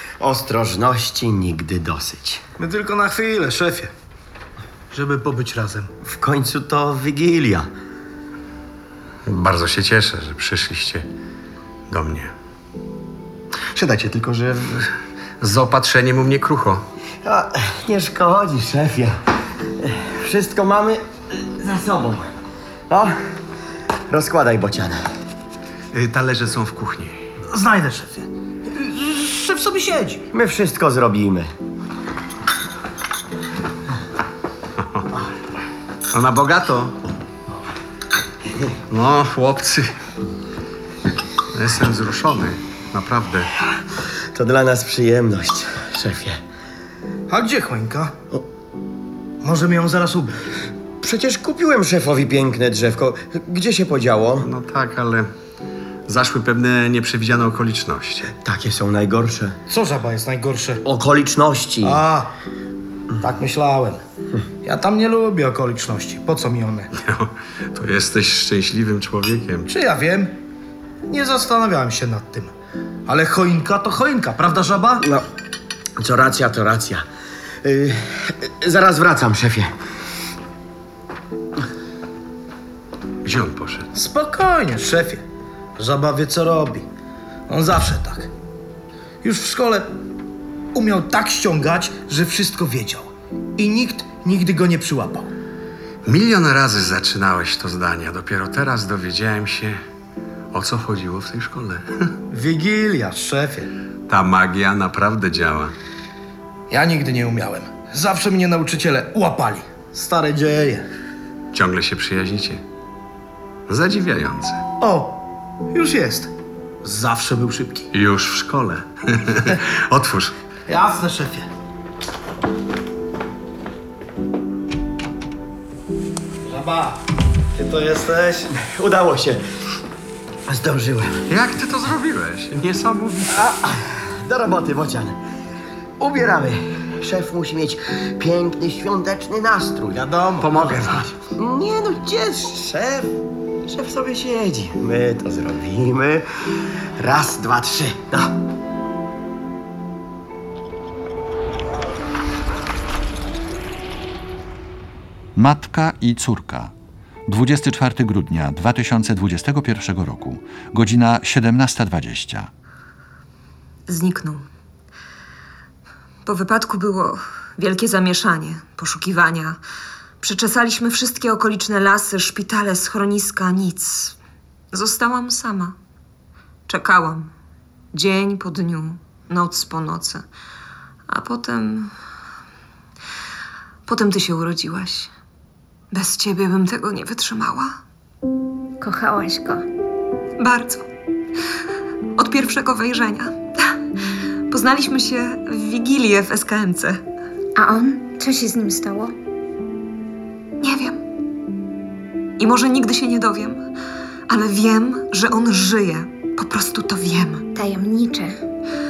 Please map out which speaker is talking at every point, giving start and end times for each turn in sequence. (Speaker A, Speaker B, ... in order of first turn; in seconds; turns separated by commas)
Speaker A: 0.2-2.4, Speaker B: 2.6-3.9, Speaker B: 4.9-5.9, Speaker A: 6.0-7.7, Speaker C: 9.3-11.1, Speaker C: 11.9-12.3, Speaker C: 13.7-16.8, Speaker A: 17.2-19.1, Speaker A: 19.8-22.3, Speaker A: 22.9-23.2, Speaker A: 24.1-25.0, Speaker C: 25.9-27.2, Speaker B: 27.5-30.2, Speaker A: 30.3-31.5, Speaker C: 36.1-37.0, Speaker C: 38.9-39.9, Speaker C: 41.5-43.5, Speaker A: 44.3-46.4, Speaker B: 47.3-48.2, Speaker B: 49.4-50.4, Speaker A: 51.0-54.5, Speaker C: 54.4-55.3, Speaker C: 56.1-58.3, Speaker A: 58.3-59.6, Speaker B: 59.7-60.8, Speaker A: 60.8-62.0, Speaker B: 61.8-62.3, Speaker B: 63.2-64.0, Speaker B: 64.6-66.9, Speaker C: 66.9-69.7, Speaker B: 69.7-70.4, Speaker B: 71.1-72.5, Speaker B: 73.1-75.1, Speaker A: 76.0-77.0, Speaker A: 77.6-79.7, Speaker C: 83.2-83.9, Speaker B: 83.9-85.2, Speaker B: 85.8-86.9, Speaker B: 87.5-88.3, Speaker B: 89.2-89.9, Speaker B: 90.7-95.3, Speaker C: 96.0-99.8, Speaker C: 100.5-102.1, Speaker B: 102.3-103.7, Speaker C: 104.1-105.7, Speaker B: 106.7-110.8, Speaker C: 111.5-112.6, Speaker C: 113.7-114.6, Speaker B: 114.8-116.3, Speaker B: 116.8-117.9, Speaker C: 117.9-120.3, Speaker B: 120.7-121.5, Speaker B: 126.4-127.0, Speaker B: 127.5-128.5, Speaker A: 128.5-129.4, Speaker A: 130.5-131.2, Speaker C: 131.3-133.4, Speaker A: 133.3-135.2, Speaker A: 136.0-140.1, Speaker B: 139.9-141.1, Speaker C: 140.4-141.1, Speaker A: 141.3-146.3, Speaker A: 147.0-148.3, Speaker D: 155.4-156.7, Speaker D: 157.3-162.5, Speaker E: 163.9-164.5, Speaker E: 166.2-169.6, Speaker E: 170.2-174.2, Speaker E: 174.7-175.8, Speaker E: 176.7-177.3, Speaker E: 177.9-180.2, Speaker E: 181.1-181.9, Speaker E: 183.9-185.1, Speaker E: 185.9-187.8, Speaker F: 188.8-189.7, Speaker E: 190.4-190.9, Speaker E: 192.2-193.8, Speaker E: 194.5-197.0, Speaker F: 197.6-199.2, Speaker E: 200.6-201.0, Speaker E: 202.4-203.7, Speaker E: 204.3-207.4, Speaker F: 207.6-208.4